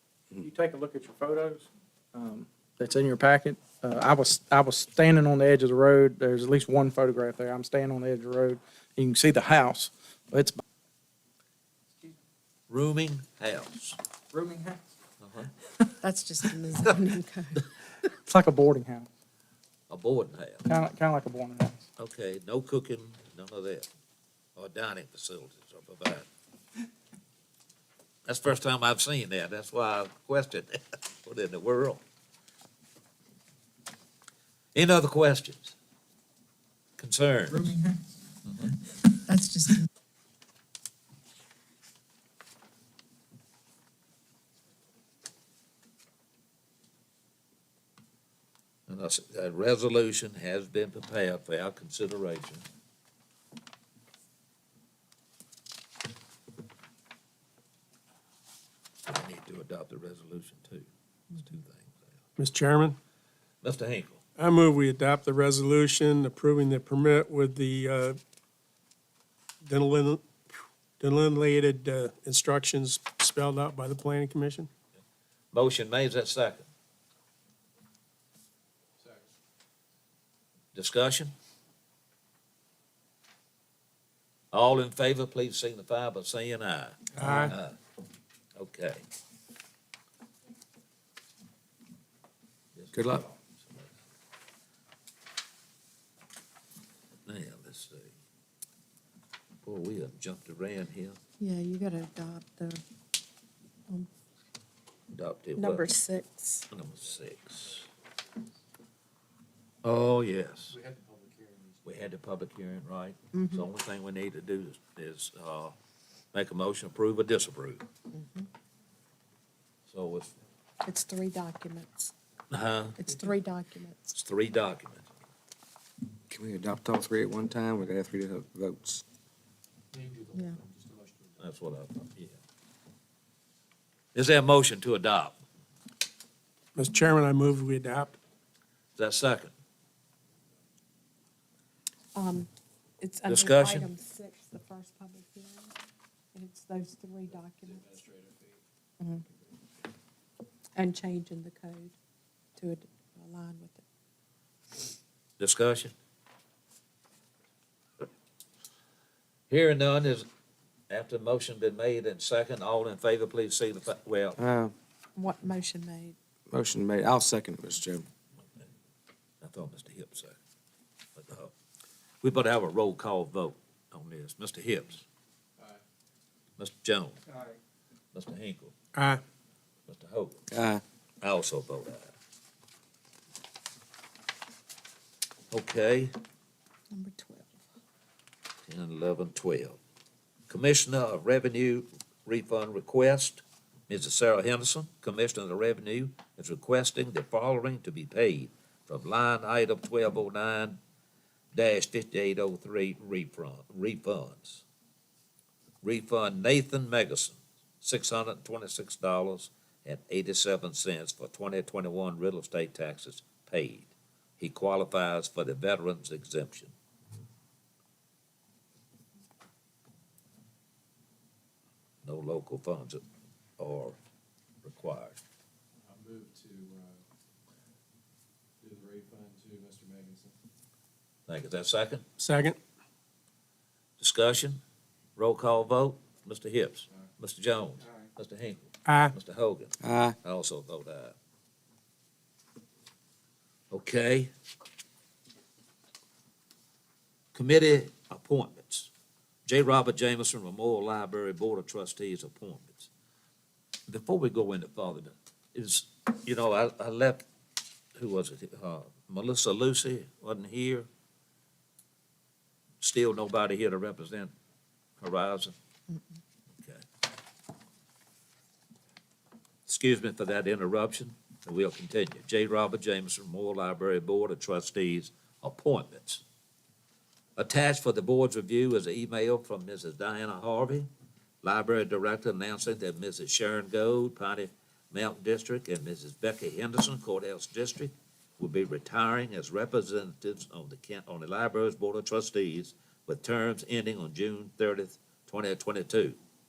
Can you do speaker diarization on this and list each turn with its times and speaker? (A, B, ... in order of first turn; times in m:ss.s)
0:00.4-0:10.6 A
0:12.7-0:14.0 B
0:14.3-0:14.7 A
0:15.2-0:15.5 B
0:16.0-0:17.6 C
0:18.2-0:19.1 A
0:19.9-0:20.7 B
0:20.7-0:21.8 A
0:22.0-0:23.9 B
0:24.6-0:26.3 B
0:28.2-0:32.0 B
0:34.7-0:35.7 B
0:37.0-0:37.8 B
0:38.4-0:38.7 B
0:39.3-0:39.8 C
0:48.9-0:52.6 B
0:59.1-1:02.1 B
1:02.4-1:03.0 D
1:03.6-1:04.2 B
1:04.4-1:08.2 D
1:09.6-1:14.7 D
1:15.5-1:16.7 B
1:20.7-1:21.3 B
1:24.5-1:27.8 B
1:27.2-1:27.5 D
1:28.6-1:29.0 B
1:32.8-1:33.9 B
1:32.9-1:33.3 E
1:37.2-1:38.1 B
1:39.6-1:41.2 B
1:41.4-1:42.8 C
1:45.1-1:45.9 B
1:45.6-1:46.7 C
1:46.7-1:47.9 B
1:49.8-1:50.8 B
1:50.7-1:52.0 F
1:51.8-1:55.8 B
1:53.3-1:53.6 C
1:56.3-1:57.8 B
1:58.1-1:58.5 C
1:59.9-2:00.3 B
2:00.8-2:02.1 C
2:02.5-2:03.0 B
2:03.0-2:04.1 C
2:04.1-2:05.1 B
2:06.3-2:09.0 E
2:09.9-2:11.3 F
2:11.4-2:12.4 B
2:14.1-2:15.4 B
2:16.8-2:18.2 D
2:19.0-2:19.5 B
2:22.1-2:22.5 C
2:23.0-2:25.7 C
2:23.3-2:23.9 B
2:26.3-2:28.1 C
2:27.7-2:28.6 F
2:29.3-2:29.6 F
2:30.7-2:31.9 C
2:32.6-2:33.8 C
2:35.4-2:35.9 B
2:39.5-2:40.2 B
2:40.9-2:44.4 B
2:44.4-2:44.7 E
2:45.2-2:46.2 C
2:46.5-2:48.0 E
2:49.4-2:50.4 B
2:51.2-2:51.5 B
2:52.2-2:55.0 B
2:56.6-2:57.2 B
2:58.1-2:58.7 B
2:58.9-2:59.2 D
2:59.9-3:00.4 B
3:00.5-3:00.8 E
3:01.2-3:02.1 B
3:05.5-3:06.1 B
3:06.9-3:07.6 C
3:08.7-3:09.8 B
3:10.5-3:20.8 B
3:21.5-3:24.6 B
3:25.8-3:36.7 B
3:42.0-3:43.0 B
3:43.6-3:44.0 B
3:44.6-3:45.2 B
3:45.8-3:47.0 F
3:48.6-3:50.3 F
3:51.3-3:52.0 B
3:52.2-3:52.6 D
3:54.0-3:54.6 B
3:55.2-4:01.1 B
3:58.9-3:59.1 D
3:59.8-4:00.2 E
4:03.7-4:04.3 B
4:07.3-4:08.9 B
4:09.4-4:12.9 B
4:13.9-4:17.2 B
4:18.0-4:20.9 B
4:22.8-4:24.3 B
4:25.0-4:25.5 B
4:26.6-4:26.8 B
4:29.6-4:36.2 B
4:37.4-4:40.9 B
4:41.4-4:56.2 B